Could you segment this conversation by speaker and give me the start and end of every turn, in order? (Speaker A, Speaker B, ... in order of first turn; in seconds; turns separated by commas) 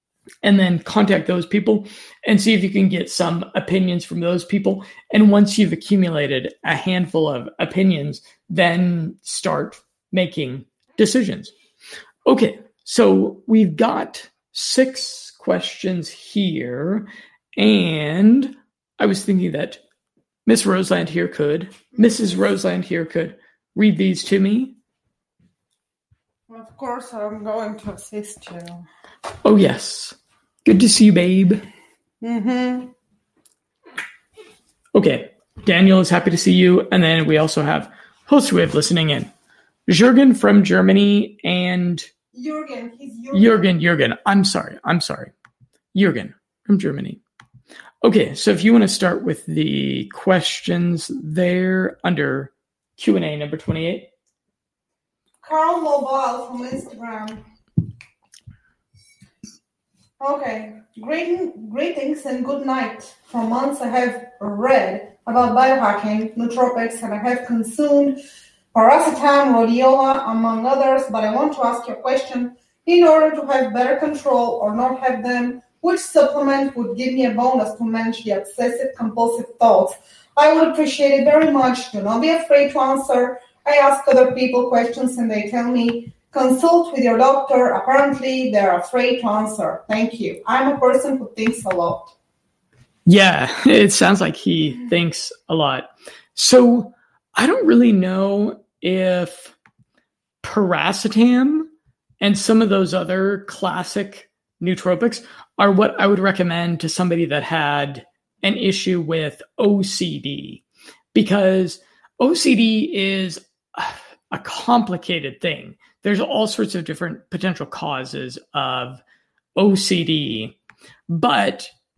Speaker A: 0.4-11.5, Speaker A: 12.2-19.8, Speaker A: 20.5-24.8, Speaker B: 26.5-28.9, Speaker A: 29.4-31.6, Speaker B: 32.2-32.9, Speaker A: 35.0-39.3, Speaker A: 39.9-42.1, Speaker B: 42.3-43.6, Speaker A: 43.3-45.3, Speaker A: 45.9-47.2, Speaker A: 48.0-54.1, Speaker B: 55.4-57.4, Speaker B: 60.2-68.2, Speaker B: 68.7-92.2, Speaker A: 93.1-99.5, Speaker A: 100.4-101.7, Speaker A: 102.2-110.6, Speaker A: 111.1-119.0, Speaker A: 119.6-120.6, Speaker A: 121.1-121.7